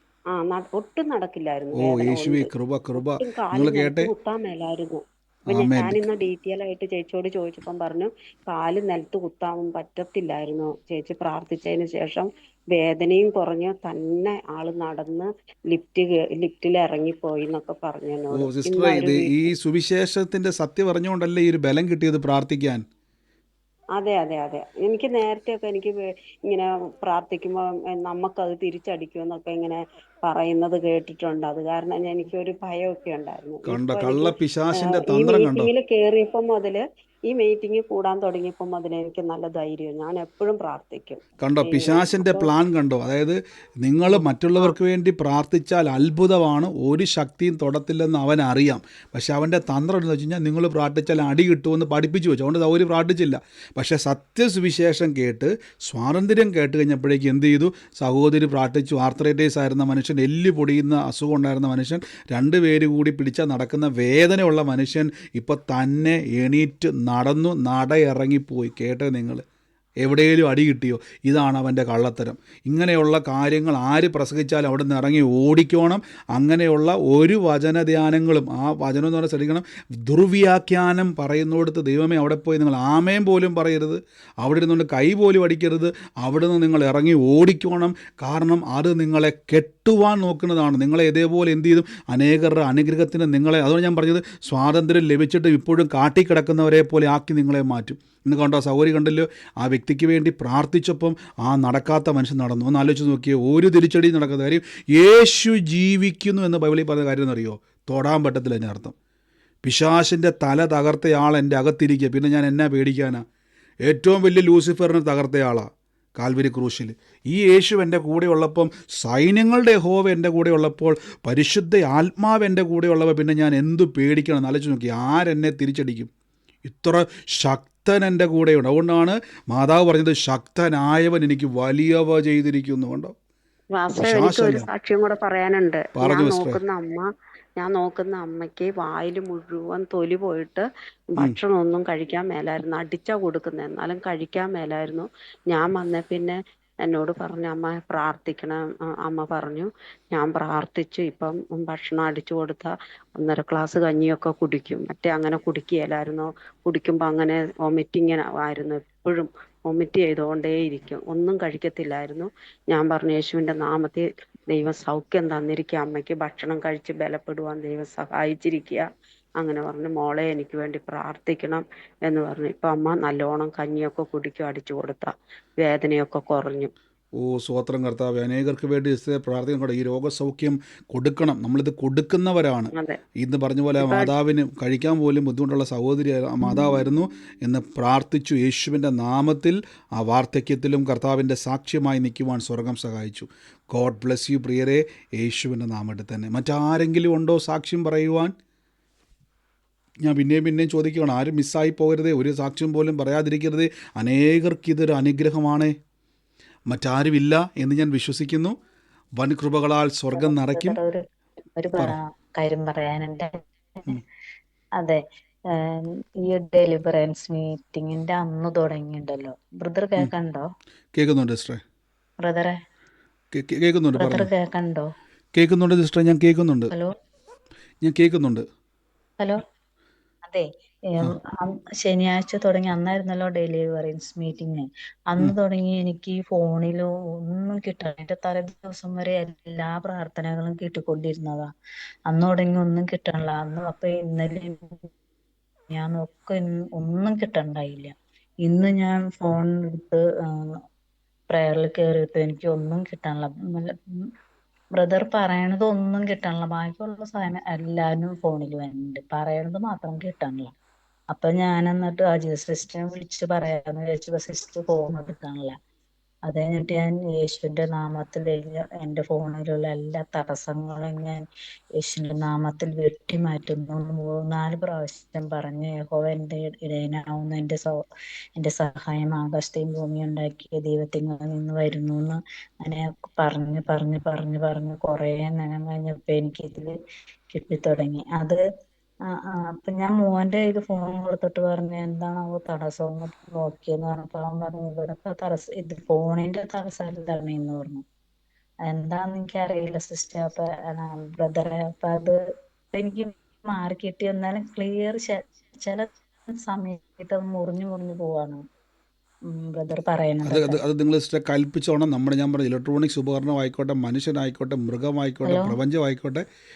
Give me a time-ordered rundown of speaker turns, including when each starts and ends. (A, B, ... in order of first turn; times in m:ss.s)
0:00.3-0:02.5 A
0:01.8-0:04.1 B
0:03.0-0:19.4 A
0:05.5-0:06.0 B
0:18.3-0:22.8 B
0:24.0-0:34.3 A
0:33.7-0:35.7 B
0:34.9-0:42.5 A
0:41.4-1:09.4 B
0:44.1-0:44.7 A
1:10.0-1:49.0 B
1:49.6-1:53.2 B
1:53.9-2:06.1 B
2:06.6-2:13.1 B
2:13.8-2:48.8 A
2:14.0-2:14.7 B
2:16.0-2:16.6 B
2:49.4-2:56.7 A
2:57.2-3:18.3 B
3:03.8-3:04.1 A
3:20.0-3:25.8 B
3:26.7-3:28.6 B
3:29.2-3:30.8 B
3:30.1-3:31.0 C
3:31.6-3:33.4 C
3:35.5-3:40.4 C
3:41.0-3:41.6 B
3:42.2-3:42.6 C
3:43.3-3:44.3 B
3:44.0-3:44.9 C
3:45.4-3:46.7 B
3:47.8-3:48.5 B
3:50.3-4:01.5 C
4:02.1-4:04.9 C
4:05.7-4:07.9 C
4:08.5-4:10.6 C
4:11.3-4:13.8 C
4:14.8-4:20.5 C
4:21.1-4:25.6 C
4:26.3-4:31.2 C
4:31.8-4:37.8 C
4:38.4-4:46.8 C
4:47.3-4:48.4 C
4:49.3-4:57.8 C
4:58.7-5:02.2 C
5:02.7-5:08.4 C
5:09.3-5:10.6 C
5:10.3-5:16.2 B
5:15.2-5:15.6 C